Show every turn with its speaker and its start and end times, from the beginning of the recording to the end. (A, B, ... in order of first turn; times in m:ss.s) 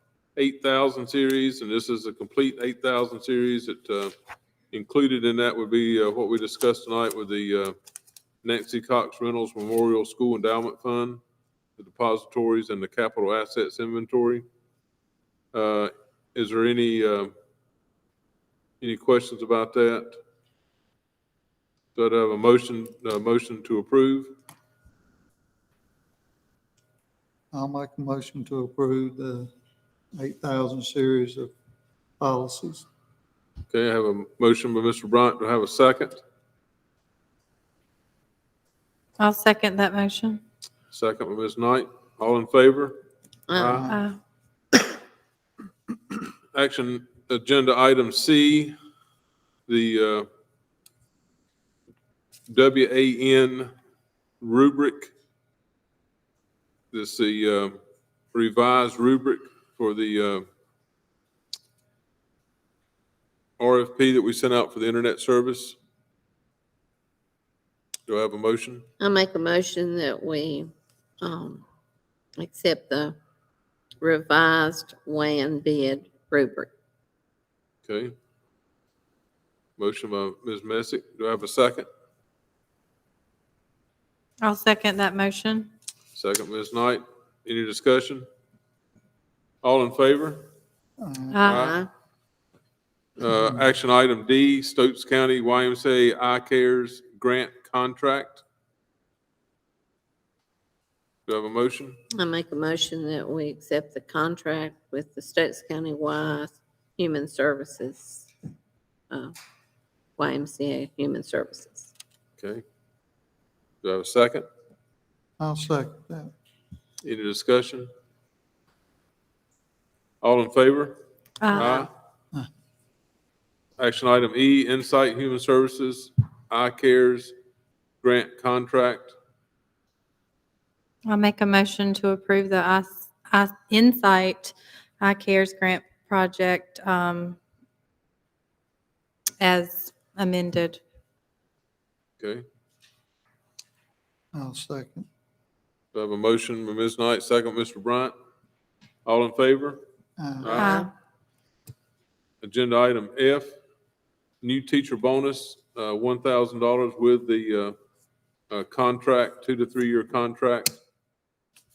0:00.4-0:04.1 A
0:04.7-0:07.7 A
0:08.4-0:11.2 A
0:11.8-0:14.4 A
0:15.5-0:17.3 A
0:18.8-0:20.1 A
0:21.9-0:24.3 A
0:27.5-0:29.5 B
0:30.2-0:31.5 B
0:32.2-0:32.8 B
0:33.7-0:36.2 A
0:39.2-0:40.4 C
0:40.9-0:43.0 A
0:43.5-0:43.9 D
0:43.5-0:43.9 A
0:43.8-0:44.2 C
0:46.5-0:48.7 A
0:49.7-0:50.3 A
0:52.5-0:53.7 A
0:54.4-0:55.1 A
0:56.9-0:57.8 A
0:58.3-1:00.4 A
1:03.6-1:05.8 A
1:08.1-1:08.8 A
1:09.0-1:11.6 D
1:12.4-1:13.2 D
1:14.0-1:16.7 D
1:17.8-1:18.1 A
1:19.8-1:21.9 A
1:24.4-1:25.7 C
1:26.1-1:28.3 A
1:29.6-1:30.4 A
1:31.0-1:31.4 B
1:31.3-1:31.7 C
1:31.4-1:31.8 A
1:31.5-1:31.9 D
1:33.2-1:38.4 A
1:41.3-1:42.0 A
1:42.2-1:48.3 D
1:50.2-1:51.9 D
1:52.4-1:52.6 A
1:53.8-1:54.4 A
1:55.4-1:56.3 B
1:57.0-1:57.9 A
2:00.2-2:01.0 A
2:01.4-2:01.8 C
2:01.5-2:01.9 A
2:03.8-2:07.3 A
2:08.0-2:09.1 A
2:11.0-2:17.4 C
2:19.4-2:20.8 C
2:24.3-2:25.0 B
2:25.9-2:28.1 A
2:29.0-2:29.8 A
2:30.2-2:30.6 B
2:30.4-2:30.8 A
2:30.5-2:30.9 C
2:30.6-2:30.9 D
2:32.4-2:33.5 A
2:34.4-2:37.7 A
2:38.5-2:40.8 A